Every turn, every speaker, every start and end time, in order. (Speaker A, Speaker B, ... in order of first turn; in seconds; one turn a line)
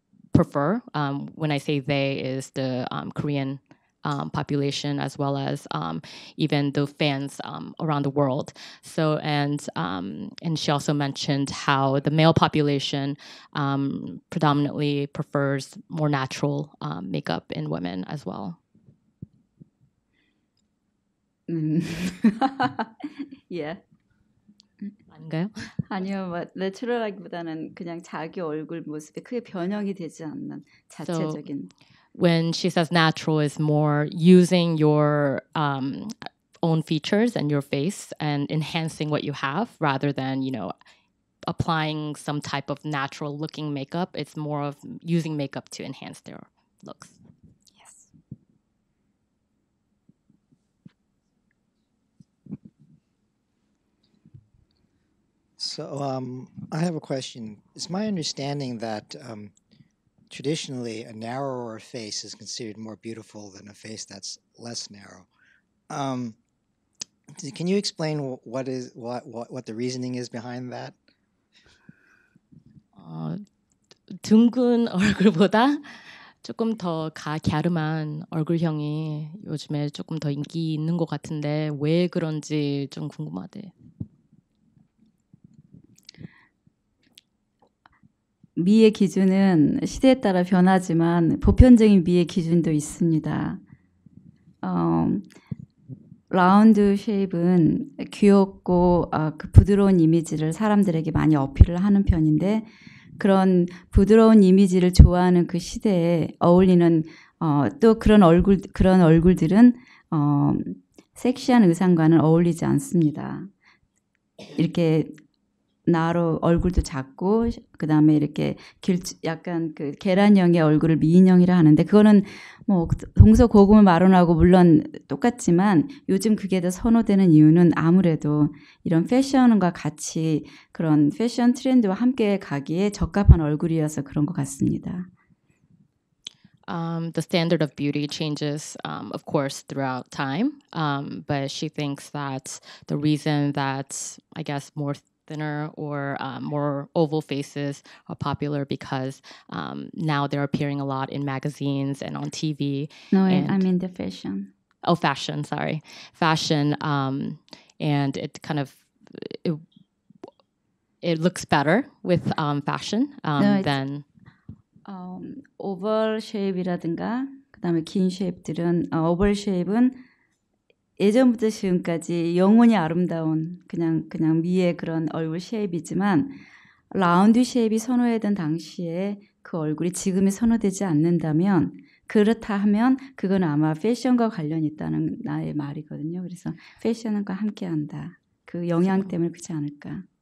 Speaker A: 0.3-18.6
Speaker B: 21.5-23.8
Speaker A: 25.1-25.7
Speaker B: 25.9-31.7
Speaker A: 31.0-31.4
Speaker A: 32.1-40.7
Speaker A: 41.5-47.1
Speaker B: 47.7-48.1
Speaker C: 55.6-59.5
Speaker C: 60.3-65.3
Speaker C: 65.9-66.4
Speaker C: 67.4-71.0
Speaker A: 73.0-73.4
Speaker A: 74.2-83.7
Speaker B: 88.6-93.6
Speaker B: 94.6-95.2
Speaker B: 96.3-113.5
Speaker B: 114.5-115.2
Speaker B: 115.9-135.1
Speaker A: 136.7-153.7
Speaker B: 153.1-154.5
Speaker A: 154.8-159.6
Speaker A: 161.0-164.1
Speaker B: 163.4-163.8
Speaker B: 164.8-170.0
Speaker B: 171.0-176.4
Speaker B: 176.9-190.1